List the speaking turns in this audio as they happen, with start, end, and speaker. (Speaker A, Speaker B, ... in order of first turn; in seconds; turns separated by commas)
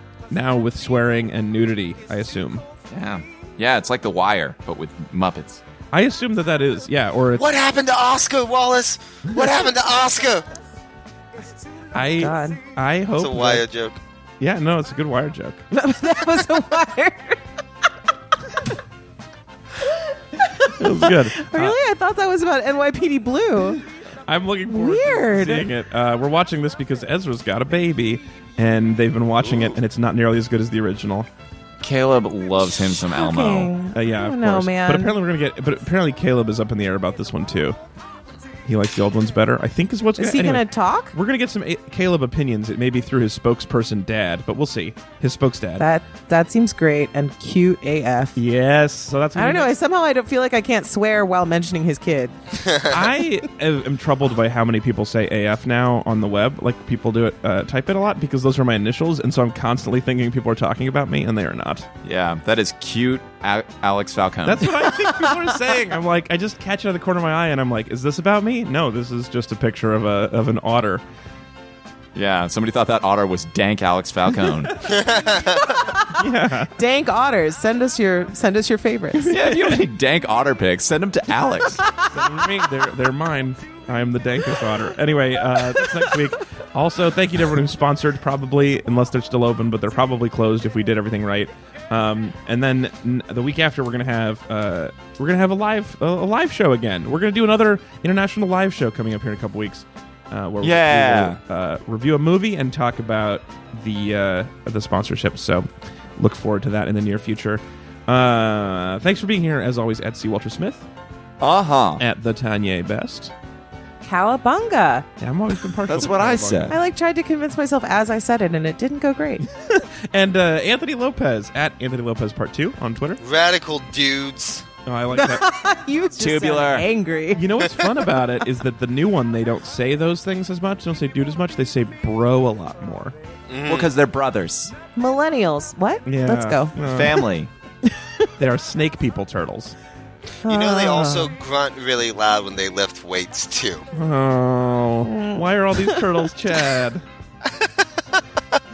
Speaker A: 0.3-2.6, Speaker B: 2.9-5.6, Speaker A: 5.9-7.5, Speaker C: 7.3-10.4, Speaker A: 11.9-13.6, Speaker D: 12.2-12.6, Speaker C: 13.2-14.0, Speaker A: 14.4-15.6, Speaker D: 15.7-17.4, Speaker D: 20.4-23.8, Speaker A: 20.6-21.8, Speaker A: 23.7-31.3, Speaker D: 24.7-25.7, Speaker B: 31.8-33.7, Speaker D: 32.9-35.1, Speaker A: 33.9-37.8, Speaker A: 38.6-45.8, Speaker D: 40.2-41.1, Speaker D: 45.8-48.3, Speaker A: 48.4-49.7, Speaker D: 49.3-52.3, Speaker C: 52.6-53.0, Speaker A: 52.9-61.9, Speaker B: 62.0-64.7, Speaker A: 64.4-71.0, Speaker D: 65.0-65.5, Speaker B: 72.1-74.8, Speaker C: 74.8-75.8, Speaker D: 75.7-76.2, Speaker A: 76.1-76.7, Speaker D: 76.8-79.3, Speaker A: 79.2-79.8, Speaker B: 79.3-81.8, Speaker D: 81.8-82.4, Speaker A: 82.1-110.9, Speaker D: 85.8-86.2, Speaker B: 100.6-101.4, Speaker B: 111.4-112.0, Speaker A: 112.0-113.3, Speaker D: 114.0-115.1, Speaker A: 115.2-116.8, Speaker B: 115.9-116.8, Speaker D: 116.7-119.4, Speaker A: 119.5-123.2, Speaker C: 123.2-124.7, Speaker A: 124.8-125.4, Speaker D: 125.1-127.6, Speaker B: 126.2-126.9, Speaker A: 127.3-133.1, Speaker C: 133.5-133.9, Speaker B: 133.7-134.7, Speaker D: 134.9-136.7, Speaker A: 136.1-137.2, Speaker B: 136.9-137.5, Speaker D: 137.9-138.2, Speaker A: 138.4-139.8, Speaker D: 140.4-141.3, Speaker C: 140.5-143.9, Speaker A: 143.9-147.0, Speaker D: 145.0-146.3